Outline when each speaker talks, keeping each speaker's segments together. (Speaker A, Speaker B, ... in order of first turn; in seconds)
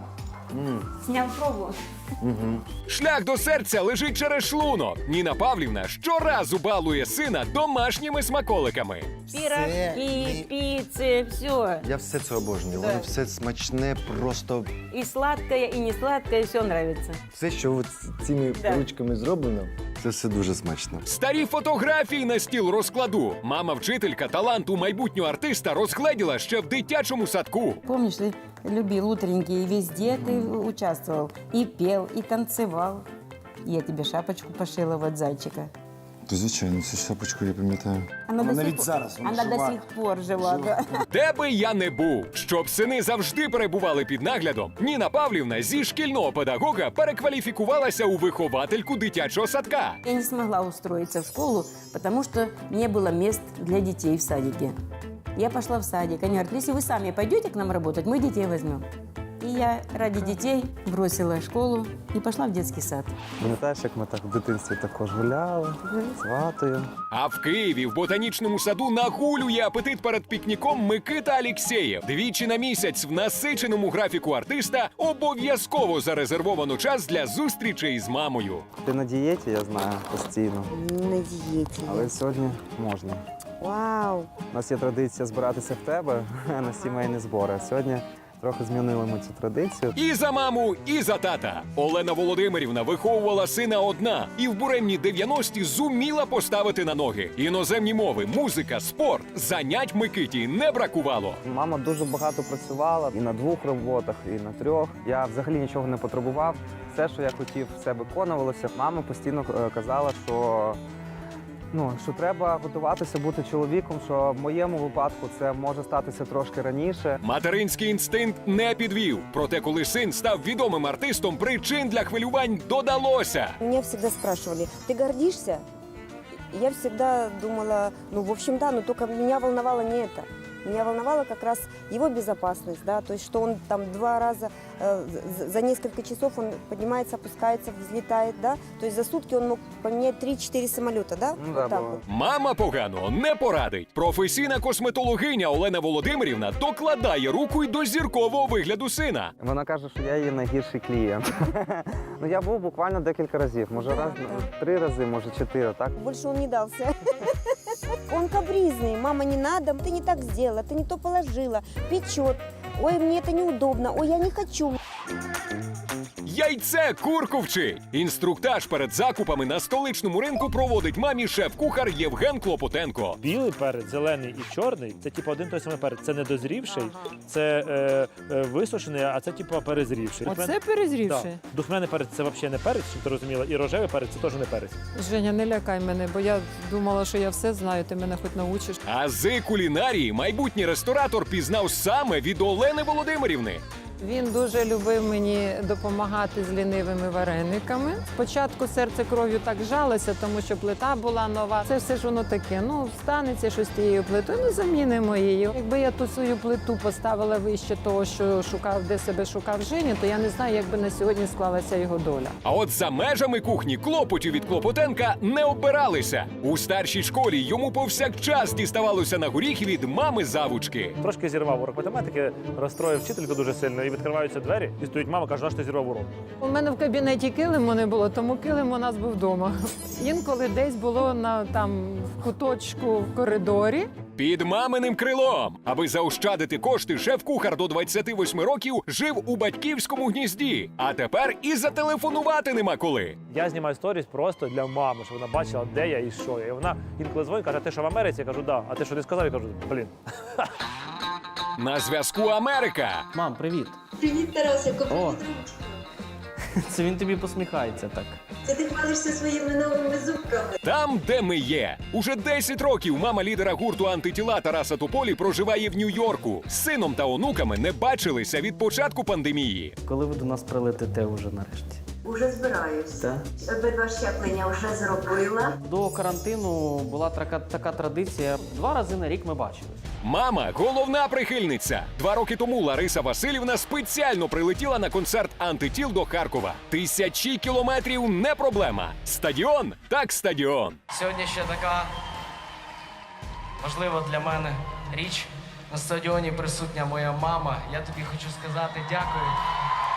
Speaker A: 0.5-0.9, 2.2-2.6, 9.3-10.5, 11.8-14.7, 17.3-21.0, 30.1-30.5, 36.3-40.8
Speaker B: 1.0-1.8, 9.3-11.9, 12.7-13.1, 14.9-17.2, 18.5-18.9, 27.8-33.0, 33.6-35.7, 38.2-41.0, 50.0-54.8, 55.3-58.9, 59.4-63.1
Speaker C: 2.9-9.2, 21.1-27.8, 41.1-50.0, 67.1-78.6, 89.9-101.4, 117.2-123.5, 142.1-149.3, 166.2-173.2, 188.8-193.6, 212.4-221.0, 234.2-243.2, 251.6-253.1, 260.6-269.8, 280.0-290.8
Speaker D: 63.4-66.9, 78.8-80.7, 81.8-83.2, 84.5-90.0, 101.4-110.8, 111.7-117.2, 141.4-142.0, 149.4-156.0
Speaker E: 80.7-82.1, 83.6-84.3, 123.6-125.6, 126.5-142.0, 153.7-154.5, 156.0-157.0, 158.1-164.8
Speaker F: 173.2-180.6, 181.1-184.8, 221.0-226.1, 243.3-250.4
Speaker G: 180.2-181.4, 184.9-188.8, 194.0-212.3, 226.4-233.9
Speaker H: 253.1-253.8, 254.9-255.2, 256.6-258.2, 269.8-271.8, 275.6-279.8
Speaker I: 254.0-255.8, 258.4-260.6, 272.0-275.5
Speaker J: 290.9-291.9, 293.6-299.4